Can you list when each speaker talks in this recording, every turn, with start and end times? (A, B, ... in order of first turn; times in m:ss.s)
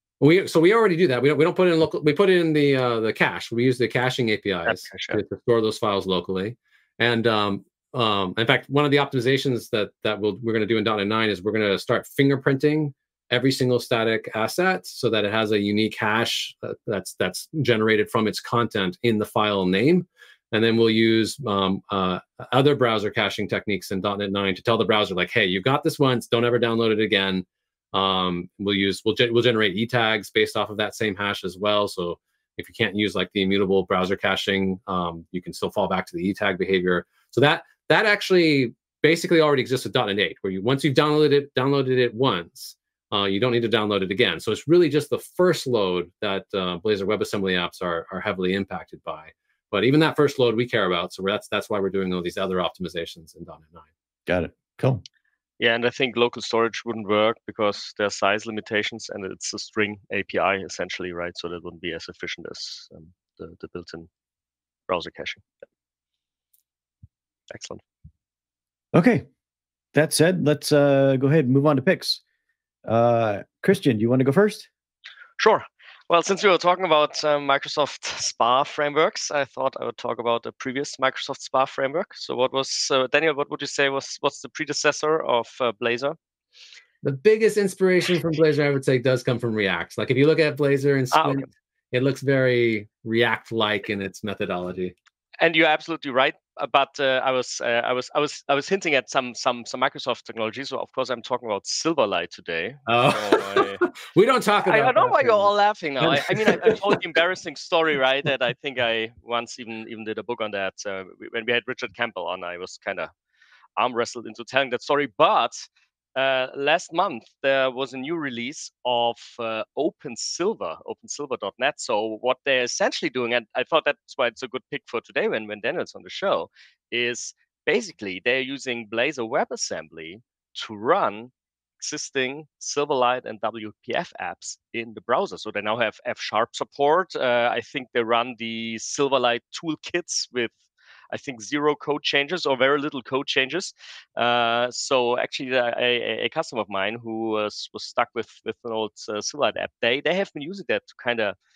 0:00.2-0:53.9 A
0:04.7-0:05.2 B
0:54.3-0:55.0 C
0:55.6-1:04.1 B
1:04.9-1:05.5 B
1:07.5-1:07.8 B
1:08.9-1:09.3 C
1:09.9-1:12.2 C
1:12.8-1:14.7 C
1:15.4-1:26.2 B
1:27.0-1:34.9 A
1:31.1-1:31.4 B
1:35.4-1:43.8 B
1:42.9-1:47.0 A
1:44.7-1:53.1 B
1:53.8-2:20.6 B
2:21.1-2:31.4 B